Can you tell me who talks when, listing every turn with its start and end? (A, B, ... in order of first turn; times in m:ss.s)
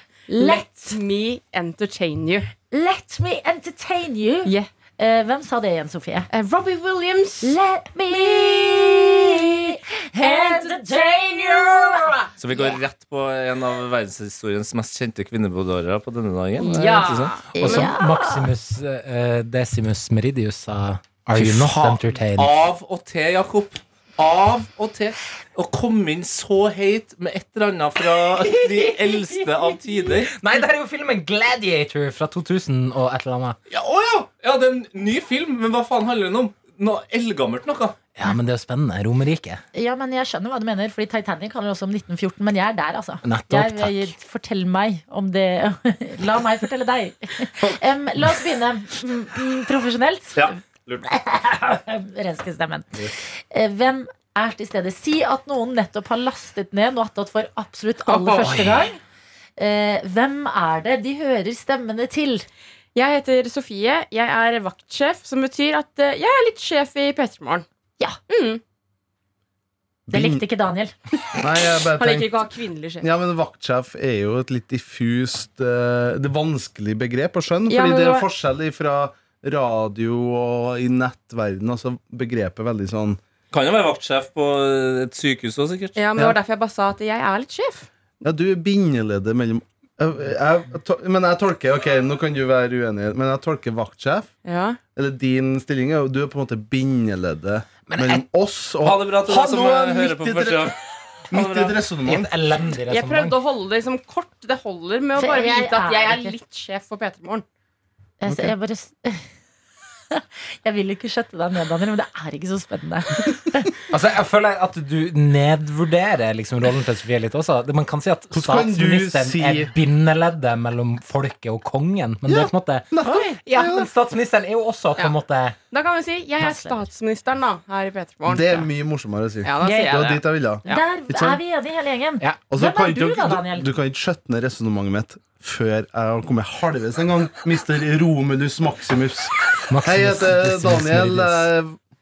0:00.3-0:01.0 A
0:00.3-0:02.5 B
0:02.6-0:06.3 A
0:04.4-0:04.7 B
0:06.3-0:11.8 B
0:07.4-0:12.3 A
0:12.4-0:17.8 C
0:16.6-0:17.9 B
0:16.7-0:22.6 D
0:17.5-0:18.5 A
0:21.3-0:30.3 C
0:30.2-0:33.6 D
0:33.7-0:38.0 C
0:38.1-0:39.6 D
0:39.7-0:59.0 A
0:43.2-0:44.1 D
0:50.4-0:51.0 C
0:58.0-0:58.8 B
0:59.6-1:02.4 A
1:02.9-1:07.6 B
1:08.3-1:08.6 B
1:10.1-1:10.4 E
1:10.1-1:10.9 A
1:11.4-1:12.4 E
1:12.0-1:13.0 B
1:13.0-1:23.2 E
1:17.7-1:18.3 B
1:23.5-1:26.0 C
1:26.0-1:27.9 B
1:28.2-1:34.3 E
1:34.4-1:34.8 B
1:34.9-1:40.7 E
1:37.9-1:38.2 D
1:38.8-1:40.8 C
1:41.3-1:42.3 E
1:41.3-1:41.8 C
1:42.0-1:43.4 D
1:42.9-1:47.4 B
1:45.1-1:46.4 A
1:48.2-1:49.2 A
1:50.1-1:53.7 A
1:53.9-2:05.6 D
1:58.3-1:59.7 E
2:02.2-2:03.9 E
2:05.7-2:08.7 B
2:06.4-2:06.9 A
2:08.2-2:11.4 E
2:09.4-2:10.8 B
2:09.6-2:09.9 A
2:10.6-2:13.7 A
2:12.5-2:21.8 E
2:19.7-2:21.5 D